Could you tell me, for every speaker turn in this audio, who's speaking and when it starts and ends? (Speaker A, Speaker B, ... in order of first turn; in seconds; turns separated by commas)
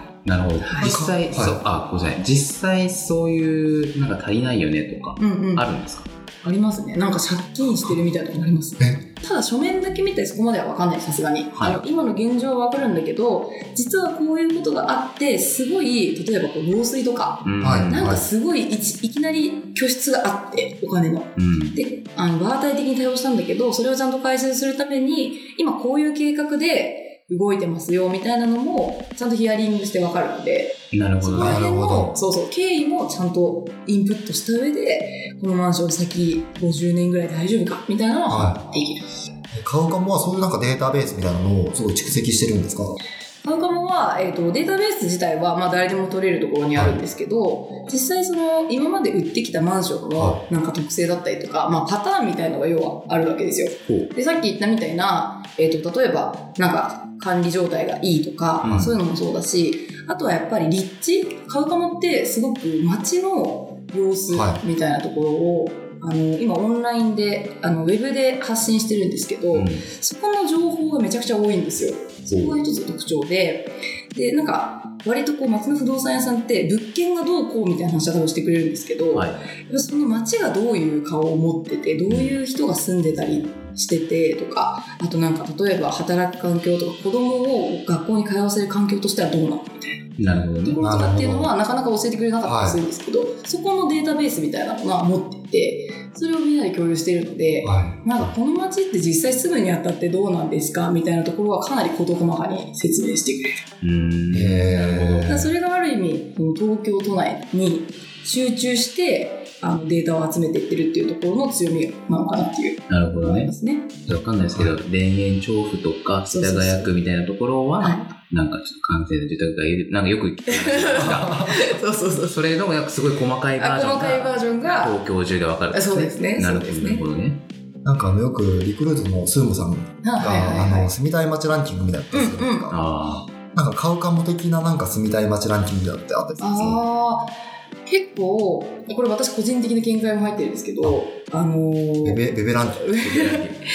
Speaker A: 0.2-6.1, Speaker B: 0.6-0.9, Speaker C: 0.8-1.6, Speaker B: 5.2-5.7, Speaker B: 6.4-39.1, Speaker A: 11.5-11.8, Speaker A: 17.4-18.1, Speaker C: 17.6-18.2, Speaker A: 21.4-21.8, Speaker A: 30.9-31.6, Speaker C: 31.4-32.2, Speaker C: 38.3-38.6, Speaker C: 39.5-43.0, Speaker B: 43.4-90.1, Speaker C: 46.7-47.0, Speaker C: 50.1-50.4, Speaker A: 58.6-58.9, Speaker C: 58.6-58.9, Speaker C: 64.3-64.6, Speaker A: 69.5-69.9, Speaker A: 72.3-72.6, Speaker A: 79.1-79.4, Speaker A: 82.1-82.4, Speaker A: 90.2-90.8, Speaker B: 90.6-103.6, Speaker C: 90.8-91.5, Speaker C: 92.4-92.8, Speaker C: 97.6-98.3, Speaker A: 103.8-105.3, Speaker C: 104.3-105.5, Speaker B: 105.2-114.0, Speaker A: 112.9-113.5, Speaker A: 114.1-121.5, Speaker B: 116.3-116.9, Speaker B: 117.8-118.1, Speaker B: 120.5-122.5, Speaker C: 121.0-121.6, Speaker A: 122.1-127.4, Speaker B: 123.6-125.0, Speaker B: 125.7-127.0, Speaker C: 127.8-132.8, Speaker B: 130.0-130.9, Speaker B: 132.1-132.7, Speaker A: 132.7-133.3, Speaker C: 133.5-136.8, Speaker B: 136.4-137.3, Speaker B: 137.8-143.4, Speaker C: 142.0-142.8, Speaker A: 142.9-143.6